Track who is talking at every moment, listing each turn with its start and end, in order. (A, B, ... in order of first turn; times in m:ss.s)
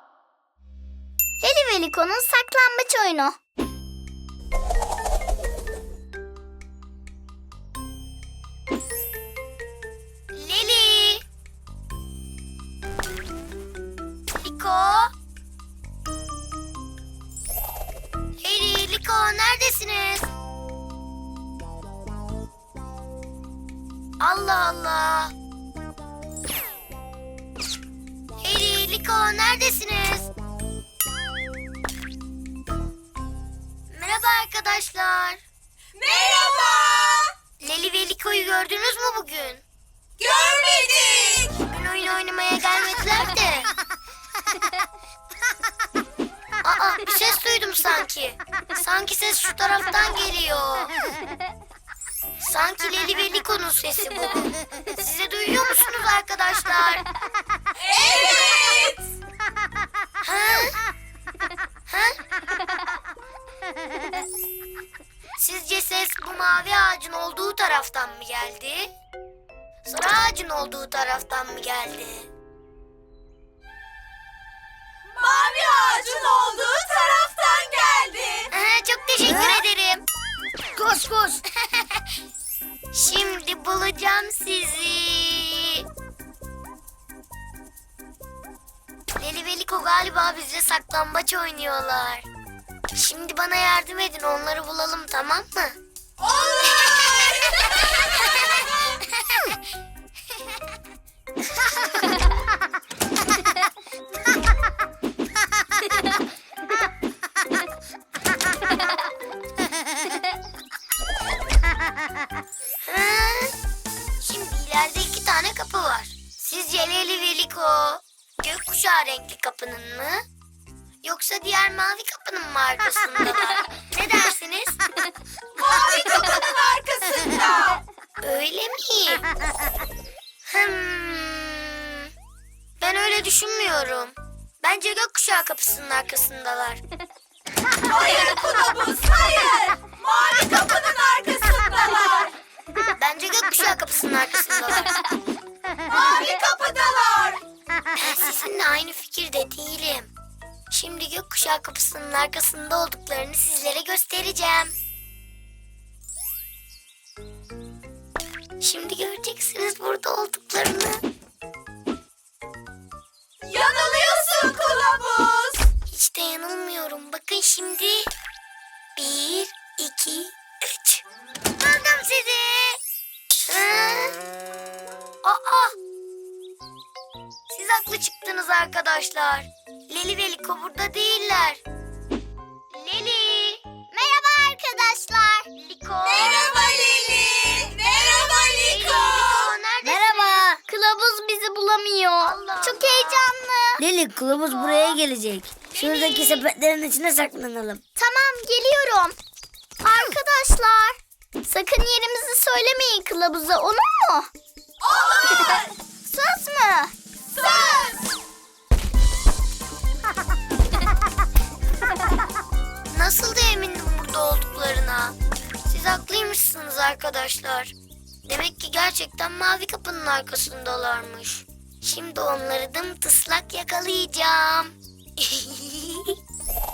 0:01.4-0:03.4 A
0:10.3-0:11.2 B
0:14.4-0:15.1 B
0:18.4-0:20.3 B
0:24.2-0:25.3 B
0:28.4-0:30.3 B
0:33.9-0:35.4 B
0:36.0-0:37.3 C
0:37.6-0:39.6 B
0:40.2-0:41.6 C
0:41.6-0:43.7 B
0:46.6-0:50.9 B
0:52.4-0:57.0 B
0:57.8-0:59.0 C
1:00.2-1:00.8 B
1:01.9-1:02.2 B
1:05.4-1:08.9 B
1:09.8-1:12.3 B
1:15.2-1:18.5 C
1:18.5-1:20.0 B
1:19.2-1:19.6 D
1:20.7-1:21.4 D
1:21.6-1:22.0 B
1:22.9-1:25.8 B
1:29.2-1:32.2 B
1:32.9-1:35.8 B
1:36.2-1:37.6 C
1:52.8-1:53.5 B
1:54.2-2:00.2 B
2:01.0-2:04.8 B
2:05.6-2:07.8 C
2:08.2-2:09.2 B
2:10.5-2:12.1 B
2:12.8-2:16.8 B
2:17.9-2:22.3 C
2:23.0-2:25.0 B
2:25.9-2:27.4 C
2:28.0-2:30.1 B
2:30.7-2:34.7 B
2:38.6-2:41.0 B
2:43.4-2:45.7 C
2:45.9-2:48.1 B
2:49.0-2:51.0 B
2:51.6-2:52.8 B
2:53.4-2:54.2 B
2:55.2-2:55.8 B
2:57.5-3:01.6 B
3:02.7-3:03.6 B
3:03.9-3:05.5 A
3:05.5-3:06.6 B
3:06.1-3:09.5 C
3:08.6-3:10.4 B
3:09.8-3:10.6 D
3:10.7-3:13.8 A
3:12.2-3:13.3 B
3:13.8-3:17.8 D
3:18.0-3:19.2 A
3:19.8-3:24.3 A
3:24.8-3:25.7 C
3:26.0-3:26.9 A
3:27.3-3:28.1 C
3:32.9-3:37.7 B
3:38.2-3:46.2 B